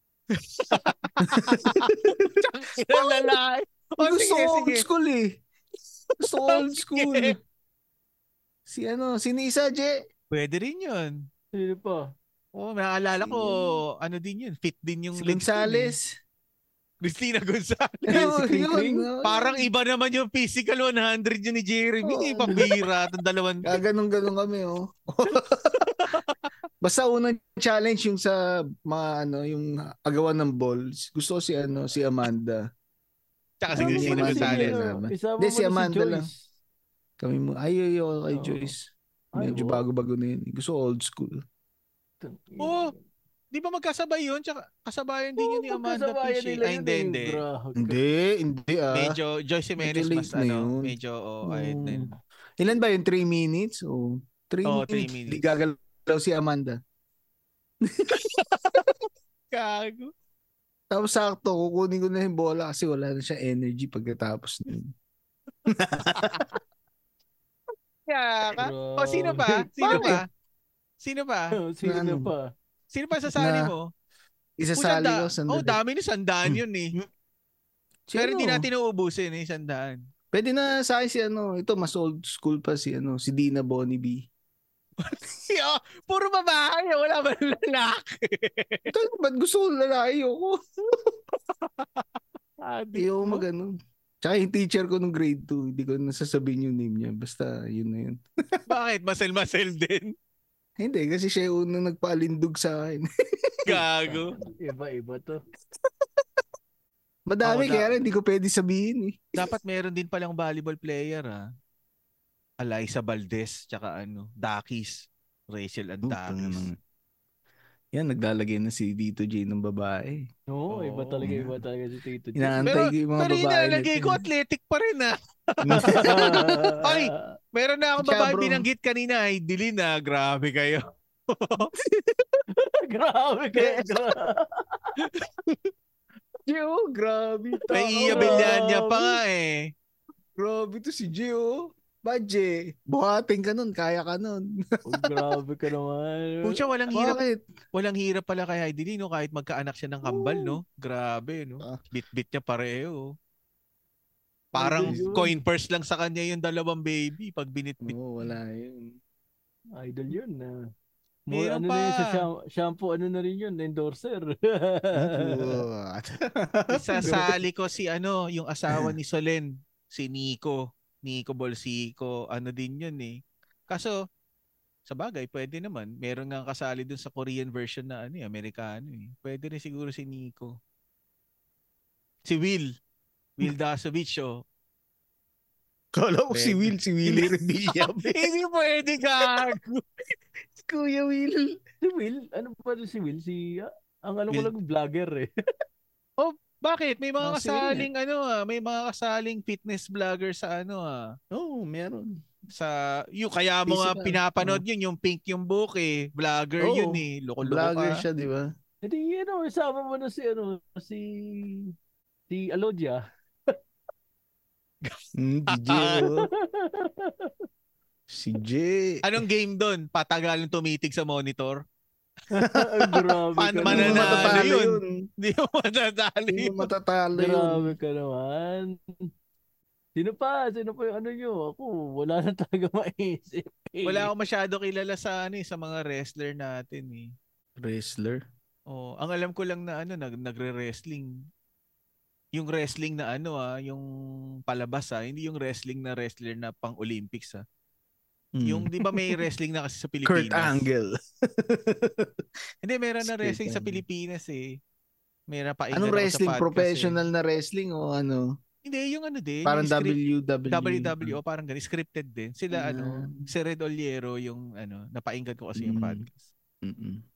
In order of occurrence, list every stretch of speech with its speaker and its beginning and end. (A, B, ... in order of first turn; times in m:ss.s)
0:00.4-0:04.9 A
0:01.3-0:02.3 B
0:02.9-0:03.3 B
0:04.0-0:05.4 B
0:06.2-0:07.4 A
0:06.2-0:07.4 B
0:08.7-0:09.9 B
0:10.3-0:11.2 A
0:11.5-0:12.1 C
0:12.6-0:15.9 A
0:13.2-0:13.7 B
0:15.2-0:16.1 B
0:17.0-0:18.3 A
0:18.1-0:19.6 B
0:18.1-0:19.1 C
0:19.2-0:23.8 A
0:22.0-0:22.7 B
0:23.6-0:26.2 B
0:26.0-0:26.4 A
0:26.8-0:32.6 B
0:33.6-0:34.8 A
0:33.7-0:36.3 B
0:33.7-0:36.4 C
0:37.2-0:38.8 B
0:38.3-0:38.7 C
0:39.3-0:39.8 C
0:39.4-0:41.4 B
0:42.2-0:43.0 C
0:42.6-0:42.9 A
0:43.5-0:47.4 A
0:45.4-0:48.0 C
0:47.8-0:49.1 B
0:48.9-0:52.1 A
0:49.8-0:50.9 B
0:51.4-0:56.8 B
0:54.6-0:55.4 A
0:57.8-0:58.2 B
0:58.1-0:58.9 A
0:59.5-1:00.1 A
1:00.9-1:04.9 B
1:05.7-1:06.6 B
1:08.1-1:10.3 A
1:08.5-1:10.2 C
1:09.9-1:10.2 B
1:11.0-1:11.6 A
1:11.6-1:12.4 C
1:11.8-1:12.3 B
1:12.9-1:13.9 A
1:13.3-1:13.7 B
1:14.6-1:15.8 B
1:14.8-1:16.9 A
1:16.4-1:17.1 B
1:18.1-1:18.7 B
1:18.2-1:20.0 A
1:20.3-1:24.3 B
1:25.0-1:28.9 A
1:28.9-1:30.6 B
1:31.6-1:32.0 A
1:32.6-1:33.4 A
1:32.9-1:38.6 B
1:38.7-1:40.1 A
1:40.8-1:43.8 B
1:43.6-1:44.3 A
1:44.3-1:45.4 C
1:47.3-1:49.3 B
1:47.4-1:48.0 A
1:49.4-1:51.4 A
1:52.6-1:56.7 A
1:56.0-1:56.7 B
1:57.9-2:00.2 B
2:00.5-2:02.6 C
2:00.7-2:01.3 A
2:01.2-2:01.6 B
2:02.4-2:04.2 B
2:02.6-2:11.7 A
2:05.6-2:06.5 B
2:05.8-2:07.3 C
2:08.0-2:08.7 B
2:12.0-2:12.3 B
2:12.5-2:14.8 C
2:13.6-2:13.9 B
2:15.0-2:15.7 A
2:16.4-2:18.5 B
2:17.7-2:19.7 A
2:18.1-2:19.2 C
2:20.4-2:25.1 B
2:24.8-2:26.6 C
2:26.4-2:27.2 A
2:26.9-2:27.4 B
2:27.7-2:33.1 A
2:30.2-2:30.5 B
2:34.5-2:35.3 C
2:34.5-2:38.0 A
2:34.9-2:35.2 B
2:37.9-2:39.0 B
2:39.8-2:40.5 C
2:41.3-2:45.6 C
2:41.3-2:42.2 A
2:45.0-2:47.4 B
2:46.7-2:53.2 A
2:53.7-2:54.0 A
2:54.8-3:00.6 A
3:02.3-3:02.7 A
3:03.4-3:04.4 A
3:05.9-3:08.3 B
3:06.3-3:09.8 A
3:09.2-3:09.5 B
3:10.6-3:11.5 B
3:11.8-3:15.3 C
3:16.2-3:21.1 A
3:17.2-3:17.9 B
3:21.3-3:22.2 B
3:22.5-3:28.0 A
3:23.7-3:24.6 B
3:26.6-3:28.5 B
3:28.8-3:31.7 C
3:32.3-3:33.0 C
3:35.2-3:36.3 B
3:35.5-3:36.0 A
3:36.0-3:37.3 C
3:38.1-3:39.0 B
3:39.0-3:41.6 A
3:42.3-3:44.4 C
3:42.4-3:43.0 B
3:43.4-3:46.7 A
3:43.6-3:45.0 B
3:46.3-3:47.8 B
3:47.1-3:48.8 C
3:50.0-3:54.1 C
3:53.8-3:57.1 A
3:57.6-3:58.2 B
3:58.7-4:01.1 A
4:02.3-4:03.9 A
4:04.5-4:07.4 A
4:08.4-4:09.2 B
4:08.4-4:10.6 A
4:10.0-4:12.2 B
4:12.6-4:14.6 A
4:13.0-4:13.8 B
4:15.3-4:17.0 A
4:15.7-4:18.3 B
4:18.6-4:20.0 A
4:19.4-4:21.2 B
4:20.5-4:26.3 A
4:22.5-4:23.3 B
4:25.6-4:26.0 B
4:26.6-4:27.0 B